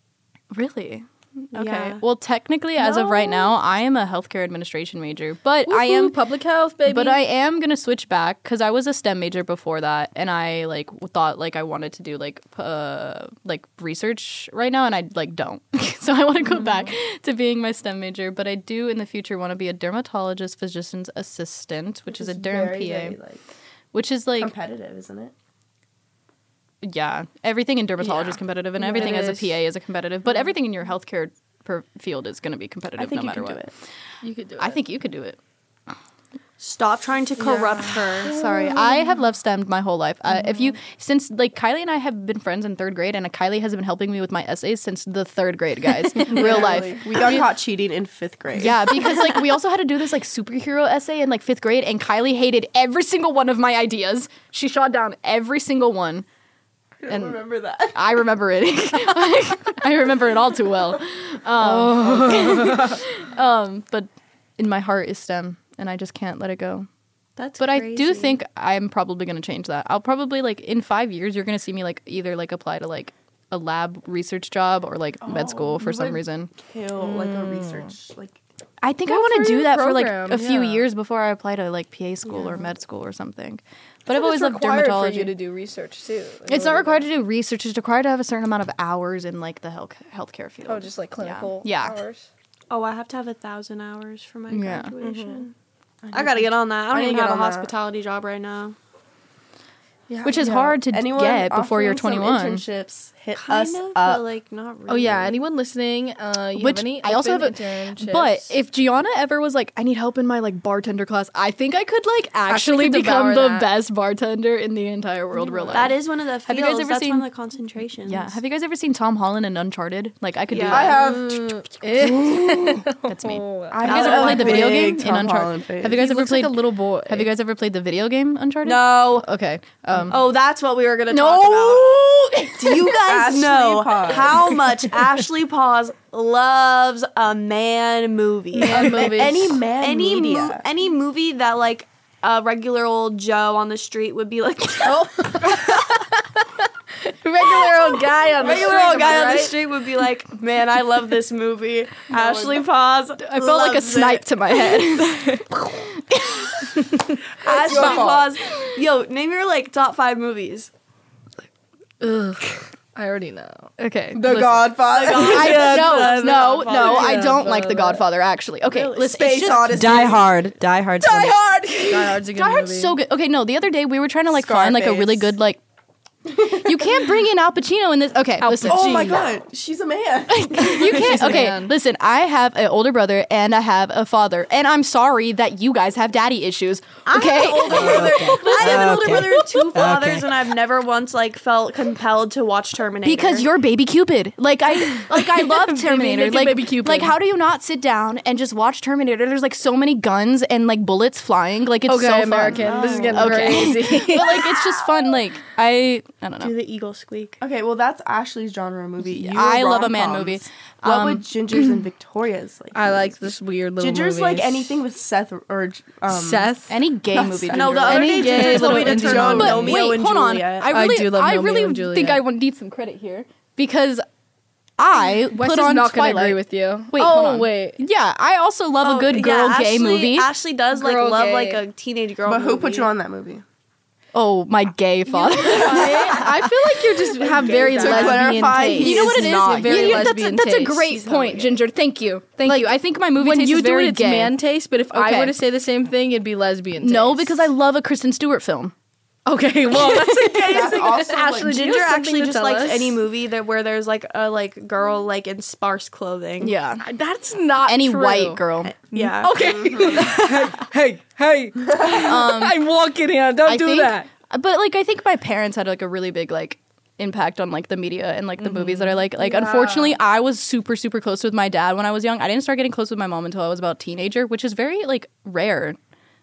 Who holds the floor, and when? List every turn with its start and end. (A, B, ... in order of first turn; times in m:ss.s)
0:00.5-0:06.2 A
0:01.5-0:02.0 B
0:02.8-0:03.5 B
0:05.7-0:07.2 C
0:06.8-0:23.2 A
0:22.1-0:23.4 D
0:23.9-0:24.5 A
0:24.4-0:25.3 D
0:26.8-0:33.6 A
0:28.8-0:29.5 C
0:28.9-0:29.2 D
0:33.0-0:33.7 D
0:34.2-0:34.8 C
0:34.6-0:35.4 A
0:36.6-0:38.3 B
0:37.4-0:39.1 C
0:38.2-0:47.5 A
0:46.2-0:49.2 D
0:48.6-0:56.2 A
0:57.0-0:58.2 D
0:57.1-1:06.9 A
1:01.6-1:03.0 C
1:02.1-1:02.6 D
1:07.4-1:08.4 B
1:07.6-1:16.5 A
1:15.2-1:18.4 D
1:17.0-1:17.9 C
1:18.8-1:25.3 A
1:19.1-1:20.8 C
1:24.1-1:27.1 C
1:26.5-1:32.0 A
1:30.6-1:32.3 C
1:32.7-1:35.5 B
1:34.5-1:34.9 A
1:35.0-1:35.5 C
1:36.0-1:37.7 D
1:36.1-1:38.8 B
1:40.1-1:40.7 C
1:40.2-1:42.6 A
1:40.9-1:44.3 D
1:43.3-1:45.4 B
1:44.9-1:48.5 C
1:46.6-1:57.2 A
1:52.5-1:53.7 C
1:55.4-1:55.9 C
1:55.7-1:58.4 B
1:58.1-2:01.0 A
2:00.5-2:01.0 B
2:00.7-2:02.9 D
2:00.7-2:04.4 C
2:03.0-2:10.3 A
2:03.7-2:06.0 D
2:03.8-2:05.0 B
2:06.0-2:07.3 C
2:08.6-2:09.3 B
2:10.1-2:12.0 B
2:11.1-2:13.0 A
2:12.6-2:25.6 B
2:13.0-2:14.6 D
2:18.5-2:19.6 C
2:18.6-2:20.7 D
2:24.8-2:29.6 C
2:28.4-2:34.8 B
2:28.4-2:29.4 D
2:32.1-2:32.6 D
2:33.2-2:38.7 A
2:37.4-2:40.7 B
2:37.4-2:38.3 D
2:42.0-2:43.7 C
2:43.8-2:50.2 A
2:44.1-2:46.2 D
2:44.8-2:47.4 B
2:45.2-2:48.0 C
2:48.7-2:49.7 B
2:49.1-2:50.4 D
2:49.7-2:51.4 E
2:51.0-2:52.2 D
2:51.8-2:53.0 C
2:52.3-2:55.6 A
2:54.3-2:55.3 D
2:56.3-2:57.2 D
2:56.5-2:59.2 A
2:58.4-2:58.9 C
2:58.6-3:01.5 D
3:00.3-3:09.4 A
3:00.6-3:01.7 C
3:07.1-3:13.5 B
3:07.7-3:10.3 E
3:13.0-3:26.6 A
3:14.9-3:17.2 C
3:21.9-3:24.6 C
3:22.6-3:23.7 D
3:22.7-3:23.1 B
3:26.4-3:27.4 B
3:27.4-3:33.3 D
3:29.0-3:31.7 A
3:32.8-3:34.8 C
3:33.8-3:36.6 D
3:36.1-3:36.8 C
3:36.7-3:44.0 A
3:37.1-3:39.9 D
3:37.5-3:40.7 B
3:37.9-3:39.8 C
3:40.7-3:42.2 C
3:44.8-3:46.4 A
3:45.2-3:47.8 C
3:46.9-3:50.3 A
3:48.8-3:52.9 B
3:50.7-3:51.6 C
3:52.2-3:53.4 D
3:54.1-3:57.2 A
3:55.3-4:01.1 C
3:55.3-3:56.3 D
3:55.6-3:56.2 B
3:57.2-3:58.6 B
3:57.7-4:00.1 D
3:57.8-3:58.2 A
3:58.7-4:04.3 A
4:00.9-4:01.6 B
4:02.4-4:07.4 C
4:04.9-4:05.4 A
4:06.8-4:08.7 A
4:09.3-4:13.0 C
4:09.8-4:10.5 A
4:10.2-4:11.6 D
4:11.2-4:16.5 B
4:16.4-4:16.8 A
4:16.8-4:24.1 C
4:17.6-4:18.7 A
4:18.6-4:20.1 B
4:19.4-4:20.2 D
4:22.0-4:22.6 A
4:23.5-4:35.8 A
4:28.4-4:30.0 C